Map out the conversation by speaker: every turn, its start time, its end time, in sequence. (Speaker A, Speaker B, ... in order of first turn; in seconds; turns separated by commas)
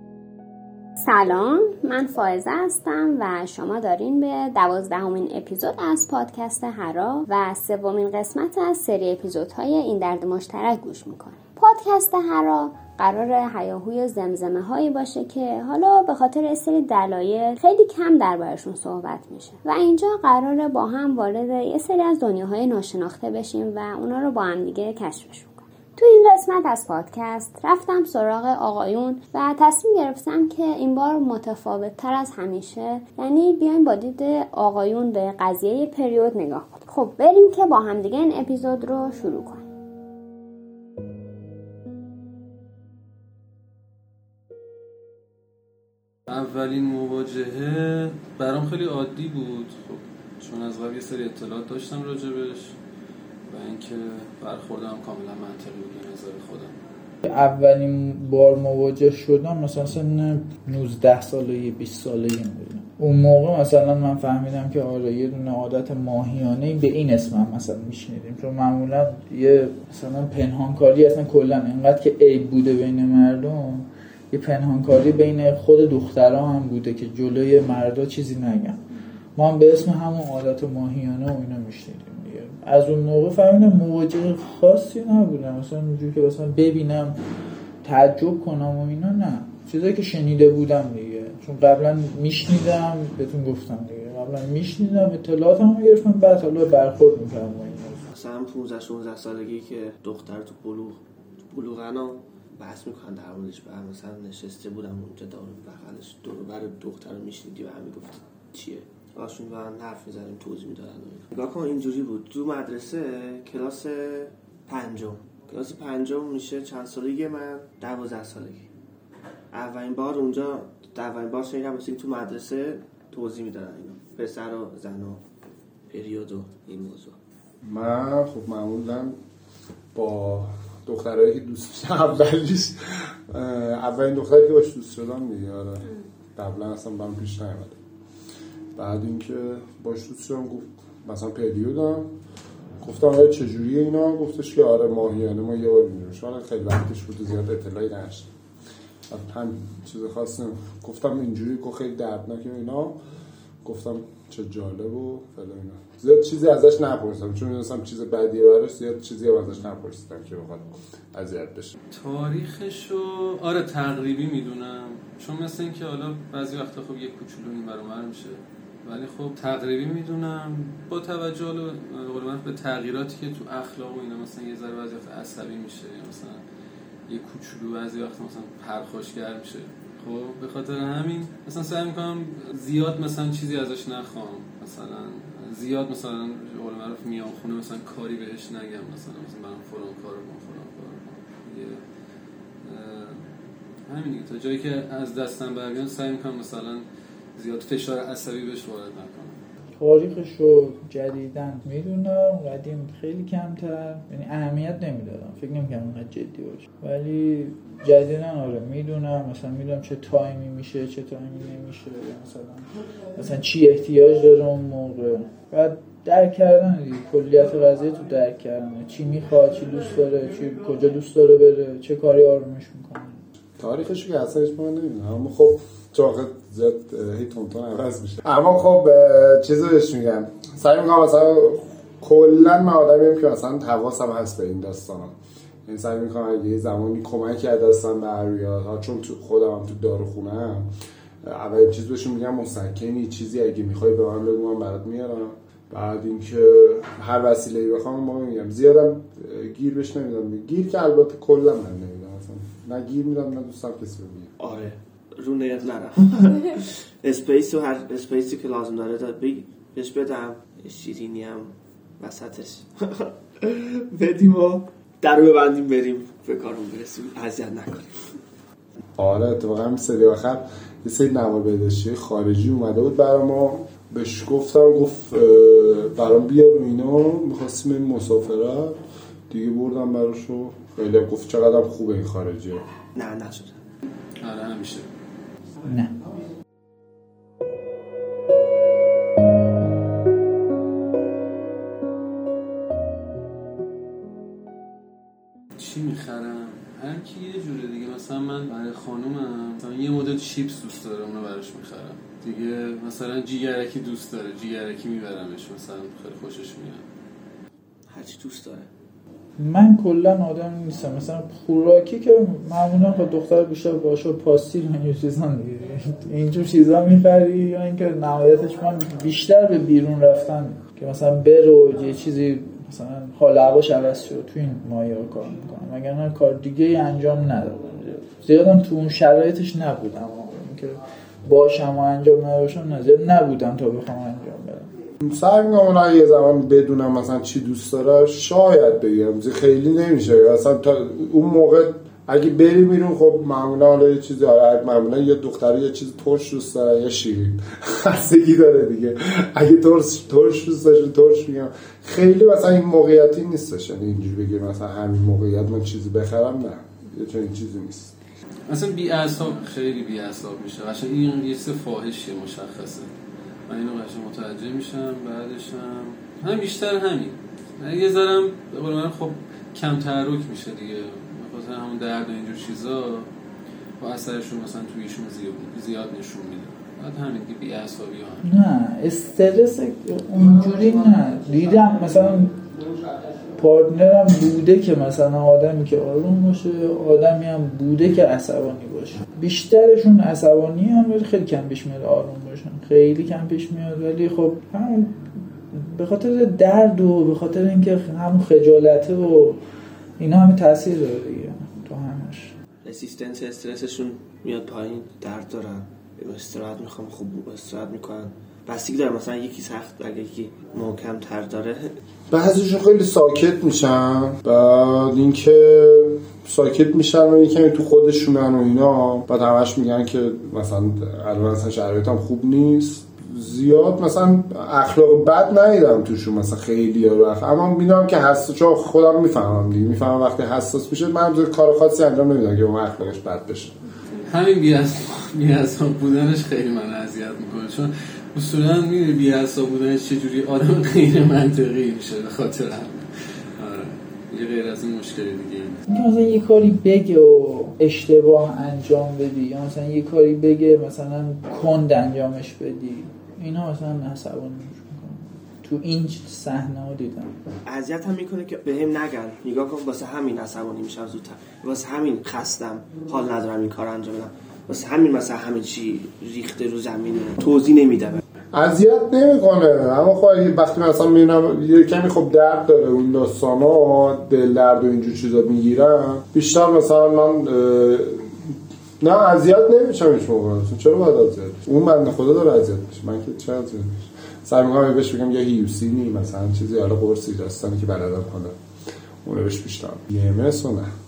Speaker A: 1.0-39.6, Speaker B: 46.3-52.8, Speaker B: 53.5-56.8, Speaker C: 57.2-78.8, Speaker C: 79.3-87.2, Speaker C: 87.8-98.0, Speaker D: 98.1-118.7, Speaker D: 119.5-125.2, Speaker D: 125.9-127.2, Speaker E: 127.6-129.1, Speaker E: 129.9-137.8, Speaker E: 138.8-142.1, Speaker E: 142.8-148.3, Speaker E: 149.1-153.0, Speaker E: 153.6-161.7, Speaker B: 161.9-176.4, Speaker B: 177.1-191.8, Speaker B: 192.6-193.3, Speaker B: 193.9-199.4, Speaker C: 199.8-223.2, Speaker E: 223.6-235.1, Speaker E: 235.7-240.7, Speaker E: 241.2-254.3, Speaker D: 254.4-268.1, Speaker E: 269.0-278.8, Speaker E: 279.3-282.6, Speaker D: 282.9-283.6, Speaker B: 284.2-284.9, Speaker C: 285.6-285.9, Speaker B: 295.6-306.8, Speaker D: 307.9-308.7, Speaker C: 309.4-334.7, Speaker E: 335.0-357.9, Speaker B: 358.5-362.9, Speaker B: 363.5-373.1, Speaker B: 373.8-378.2, Speaker C: 378.2-382.4, Speaker C: 383.3-399.4, Speaker C: 400.0-402.3, Speaker D: 402.6-411.7, Speaker E: 412.1-433.5, Speaker B: 434.1-442.9, Speaker B: 443.4-445.6, Speaker C: 445.7-457.1, Speaker D: 457.4-468.0, Speaker E: 468.3-478.2, Speaker E: 478.8-488.3, Speaker E: 489.0-490.7